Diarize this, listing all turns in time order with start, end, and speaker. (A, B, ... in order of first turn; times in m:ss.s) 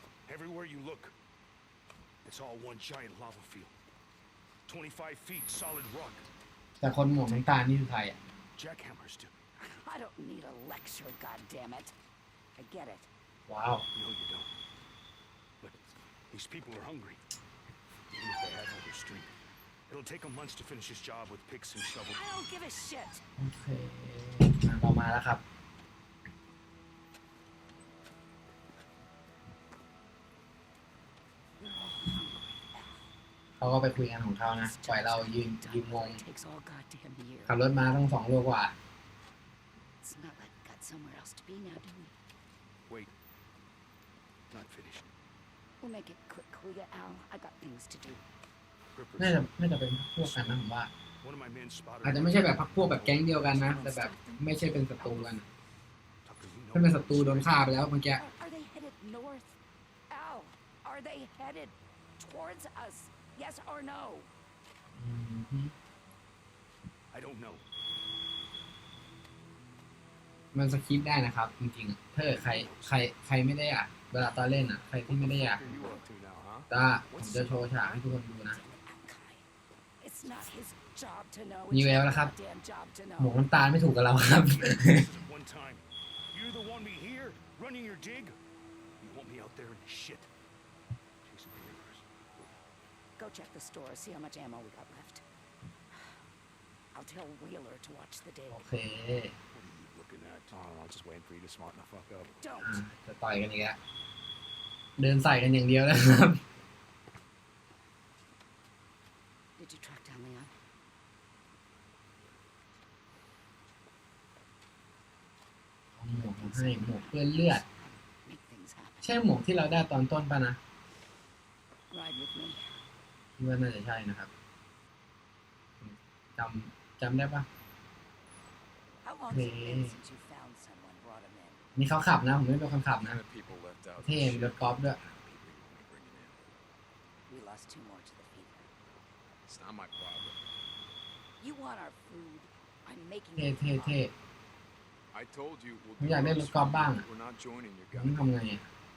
0:00.2-0:01.1 A
0:02.2-0:03.7 A
0:04.7-0:06.3 A
0:06.8-0:08.2 B
0:08.5-0:09.3 A
0:09.6-0:11.9 C
0:12.6-0:13.1 C
0:13.5-0:13.8 B
0:13.9-0:14.5 A
0:15.6-0:17.2 A
0:18.1-0:19.3 A
0:19.9-0:22.2 A
0:22.0-0:23.2 C
0:23.4-0:25.4 B
0:31.6-0:33.1 C
0:33.6-0:36.2 B
0:34.6-0:37.6 C
0:37.4-0:38.8 B
0:40.0-0:42.1 C
0:42.9-0:43.1 A
0:44.5-0:45.1 A
0:45.8-0:48.2 C
0:48.9-0:49.6 A
0:49.2-0:50.9 B
0:50.2-0:50.6 A
0:51.2-0:53.8 A
0:52.0-0:55.4 B
0:53.5-0:55.4 C
0:56.2-0:57.8 A
0:56.7-0:58.2 B
0:58.1-0:59.6 C
1:00.1-1:04.3 C
1:05.0-1:05.7 B
1:07.1-1:07.6 A
1:10.5-1:15.6 B
1:12.2-1:13.0 A
1:15.1-1:18.0 A
1:15.2-1:16.7 D
1:16.7-1:18.6 B
1:18.5-1:19.4 C
1:20.0-1:23.4 C
1:21.7-1:22.3 B
1:23.2-1:25.1 B
1:24.4-1:28.4 A
1:29.0-1:30.3 A
1:31.2-1:32.5 A
1:33.2-1:35.2 C
1:36.9-1:38.7 C
1:38.5-1:39.3 B
1:39.5-1:42.4 A
1:42.4-1:42.8 C
1:42.6-1:43.8 B
1:45.0-1:46.4 B
1:49.6-1:50.5 C
1:56.0-1:57.6 B
1:56.2-1:59.1 C
1:59.0-2:00.6 B
2:01.9-2:02.8 C
2:03.4-2:04.3 B
2:05.8-2:07.5 B
2:09.0-2:11.6 C
2:09.3-2:09.9 B
2:11.8-2:13.2 B
2:13.0-2:16.5 D
2:14.0-2:15.0 B
2:17.3-2:18.7 C
2:19.5-2:20.4 D
2:21.4-2:24.1 C
2:23.4-2:24.1 B
2:25.1-2:28.7 D
2:26.0-2:27.0 B
2:27.9-2:28.6 B